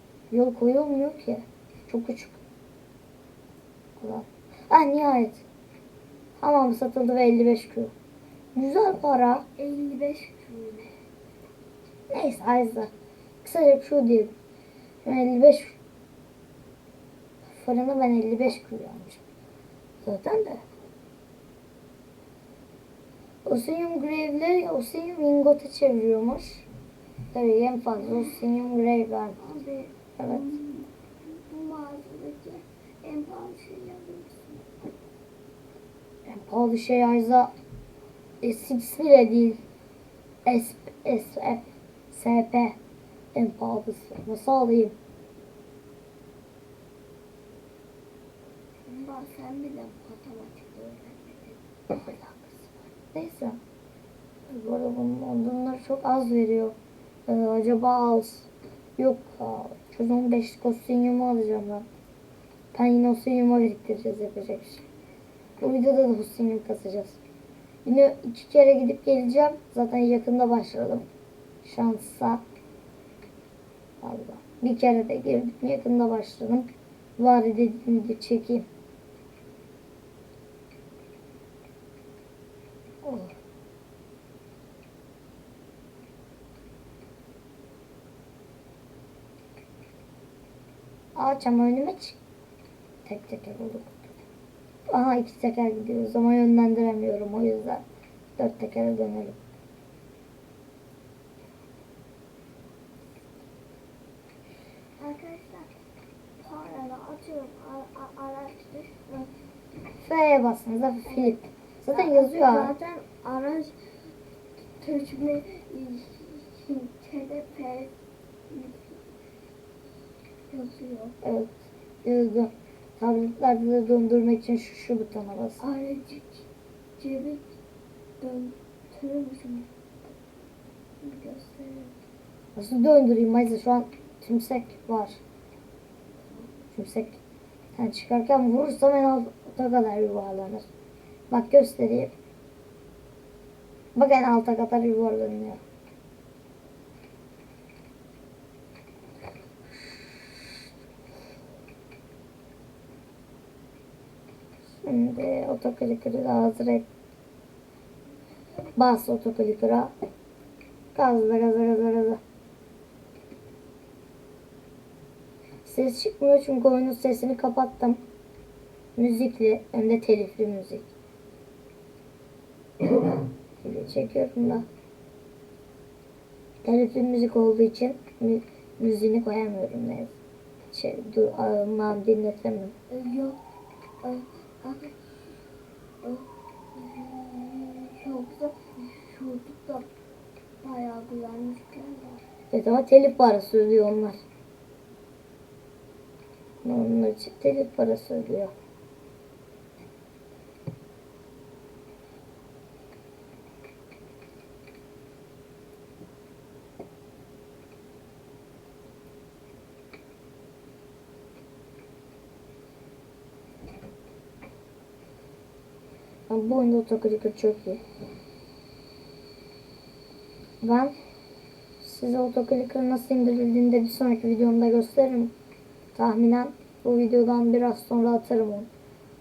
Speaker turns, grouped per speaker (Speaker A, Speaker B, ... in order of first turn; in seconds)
Speaker A: 0.3-2.4, 4.0-5.4, 6.4-7.9, 8.5-9.4, 12.1-12.9, 13.4-14.3, 15.0-15.8, 17.5-19.2, 20.0-20.6, 23.4-26.7, 27.3-29.4, 36.2-37.5, 38.4-39.6, 40.5-42.8, 43.3-44.9, 51.9-53.6, 54.5-56.8, 57.3-61.9, 62.7-64.8, 65.6-67.2, 67.8-71.1, 71.6-72.4, 74.0-78.7, 83.0-83.3, 91.1-92.2, 93.0-94.0, 94.9-97.8, 98.4-99.4, 110.0-112.7, 121.2-121.5, 122.0-125.6, 132.6-135.2, 136.7-137.2, 137.7-140.7, 141.3-142.1, 143.9-145.6, 154.8-156.8, 158.8-159.9, 160.9-162.2, 165.6-168.0, 169.0-170.9, 173.6-174.7, 176.6-180.2, 180.7-182.7, 192.5-194.2, 196.6-198.5, 216.3-217.8, 220.6-220.9, 221.8-225.3, 225.9-228.7
Speaker B: 9.6-11.0, 29.4-34.6, 48.9-51.6, 105.0-105.7, 106.4-109.3, 111.0-111.4, 111.9-113.8, 114.8-117.9, 118.5-119.0, 120.5-121.1, 125.6-126.5, 127.0-127.5, 128.2-130.1, 131.0-131.9, 136.2-136.5, 182.9-183.4, 184.0-185.4, 186.0-189.9, 190.6-192.2